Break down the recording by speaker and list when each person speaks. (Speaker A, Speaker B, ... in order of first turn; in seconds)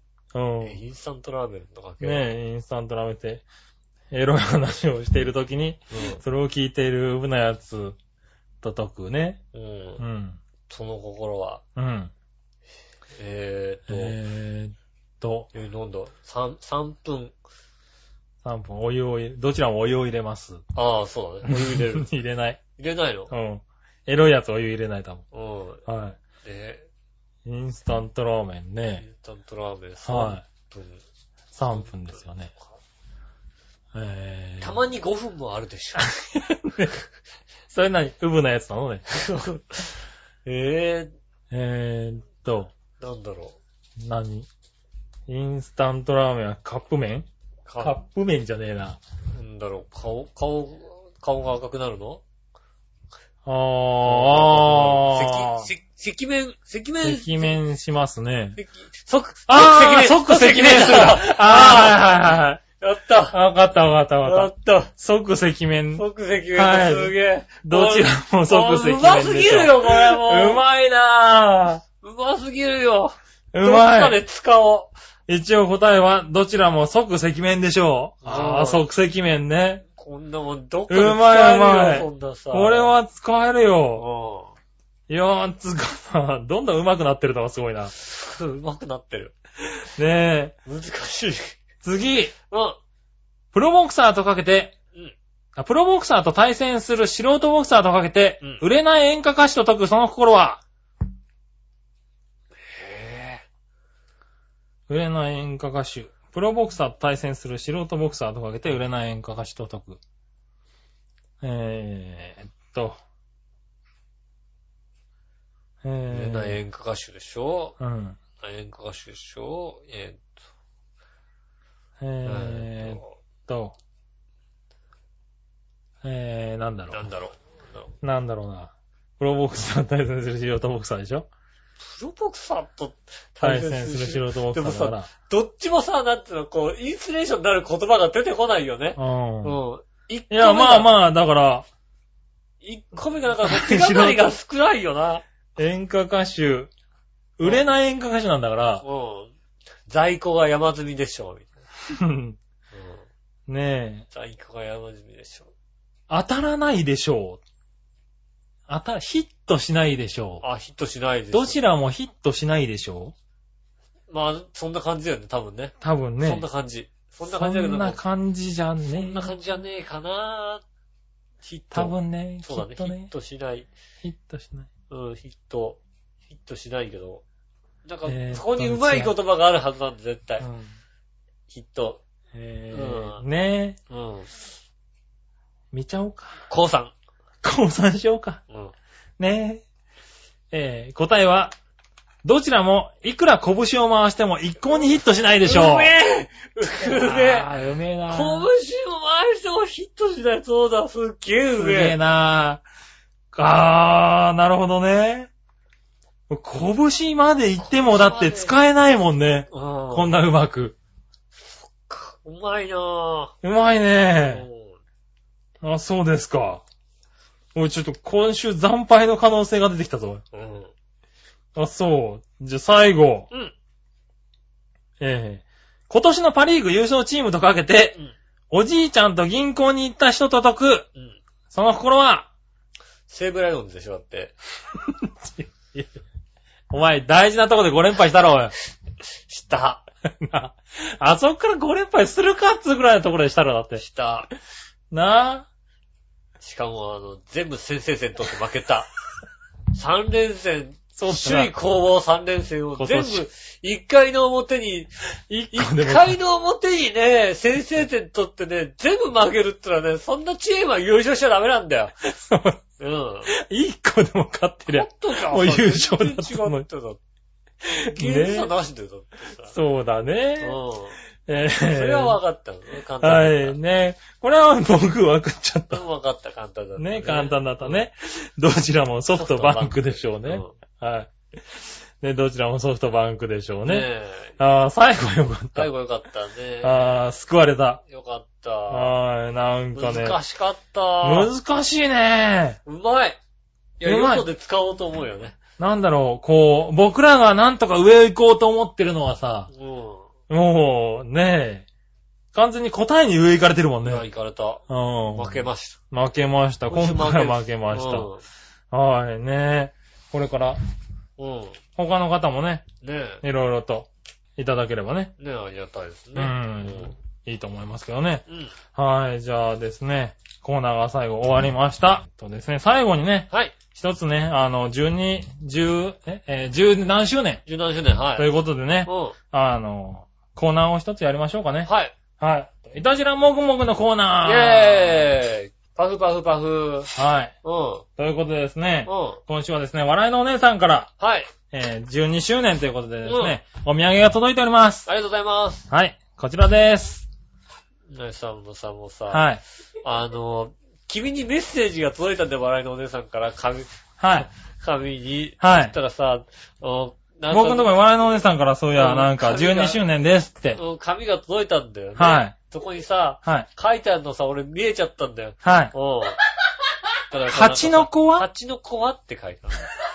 Speaker A: 0.3-0.8, 2.0-3.4, 4.1-8.0, 8.6-9.4, 10.0-10.4, 11.8-12.1, 13.9-15.5, 18.4-20.6, 21.5-22.6, 23.3-25.2, 25.9-26.2, 27.4-29.0, 30.1-30.4, 31.5-32.5, 33.9-34.8, 36.0-36.9, 37.7-39.0, 41.5-42.7, 44.0-44.5, 45.3-47.3, 47.8-49.0, 53.5-55.7, 57.0-58.6, 59.5-62.6, 63.3-66.0, 66.5-67.1, 67.6-71.8, 73.5-74.2, 75.3-79.8, 80.9-84.1, 85.1-87.9, 90.0-90.6, 91.8-92.3, 93.5-94.7, 95.6-100.6, 104.9-110.0, 111.4-113.0, 115.8-116.6, 117.8-118.2, 122.0-123.8, 126.0-127.1, 128.0-131.3, 133.4-135.1, 139.0-139.6, 140.3-141.7, 143.4-144.3, 145.6-146.7, 147.4-148.8, 151.9-152.4, 153.5-154.1, 156.1-157.4, 158.7-160.4, 161.3-163.1, 165.8-166.5, 167.3-169.3, 171.7-173.1, 174.0-174.7, 178.1-179.2, 180.4-180.7, 182.3-183.8, 185.7-186.3, 187.4-188.4, 189.2-189.6, 190.5-191.5, 192.2-195.9, 196.8-198.5, 201.6-202.6, 203.3-205.3, 206.3-210.8, 213.4-214.4, 215.6-216.6, 217.6-220.2, 221.6-223.3, 225.0-228.0, 228.5-230.9, 231.5-232.3, 234.9-235.9, 236.7-238.5, 240.1-243.8, 244.9-245.5, 251.0-251.5, 252.8-253.3, 255.3-256.2, 262.0-262.6, 263.3-266.7, 267.9-268.5, 269.5-270.6, 271.3-272.2, 273.0-275.8, 276.8-281.1, 282.0-283.9, 284.4-285.7, 286.6-287.8, 288.7-290.2, 291.0-292.6, 293.8-294.2, 295.6-299.5, 300.3-301.6, 302.3-304.1, 304.7-308.1, 308.7-310.6, 311.8-312.6, 313.2-315.1, 316.2-318.2, 318.7-327.4, 328.2-335.1, 336.9-337.3, 338.0-340.9, 341.5-344.9, 345.7-347.1, 349.1-349.4, 354.0-354.3, 355.4-355.7, 357.3-360.6, 362.0-362.3, 365.4-365.7, 367.3-368.3
Speaker B: 0.6-2.3, 5.9-6.2, 9.5-10.0, 10.7-11.6, 13.2-14.2, 15.5-17.3, 20.8-22.1, 22.8-23.3, 25.3-25.8, 26.4-26.9, 29.0-31.0, 31.7-32.7, 34.6-36.1, 39.1-39.9, 40.5-41.1, 43.0-43.6, 47.7-48.0, 49.3-52.2, 54.1-57.6, 58.6-62.0, 62.8-63.4, 64.2-64.9, 66.0-70.6, 72.0-74.9, 78.2-78.8, 79.9-82.9, 84.0-84.5, 87.9-89.3, 90.7-91.6, 92.5-92.8, 102.7-103.4, 116.1-117.8, 118.4-120.2, 122.2-123.1, 126.9-127.9, 131.8-140.9, 142.6-145.2, 148.8-149.3, 149.9-151.5, 152.7-153.1, 154.1-155.5, 160.4-161.6, 164.1-168.0, 168.9-170.6, 171.4-173.7, 174.9-175.8, 176.3-177.2, 177.8-180.5, 181.5-182.0, 182.7-183.2, 183.9-184.4, 186.5-186.9, 195.4-197.5, 198.1-202.0, 207.6-208.6, 209.5-210.1, 211.4-213.3, 214.3-214.8, 220.3-220.7, 233.1-234.3, 239.3-239.8, 243.8-244.3, 246.4-248.9, 249.7-254.9, 255.5-262.0, 262.8-263.3, 264.7-267.0, 267.9-269.5, 270.4-271.0, 271.6-273.6, 275.7-277.8, 279.1-280.6, 283.7-284.4, 285.6-287.1, 287.9-288.9, 289.7-291.3, 292.7-293.2, 293.8-295.4, 299.5-300.1, 303.8-304.6, 305.1-305.8, 306.7-308.2, 311.2-311.6, 312.8-313.2, 315.2-316.9, 318.3-318.5, 323.3-323.6, 327.5-328.3, 328.9-329.2, 331.6-331.9, 334.2-337.9, 338.9-339.2, 341.0-341.3, 343.0-343.4, 344.9-345.7, 347.9-349.3, 349.8-357.7, 358.8-359.8, 360.6-366.2, 367.1-369.7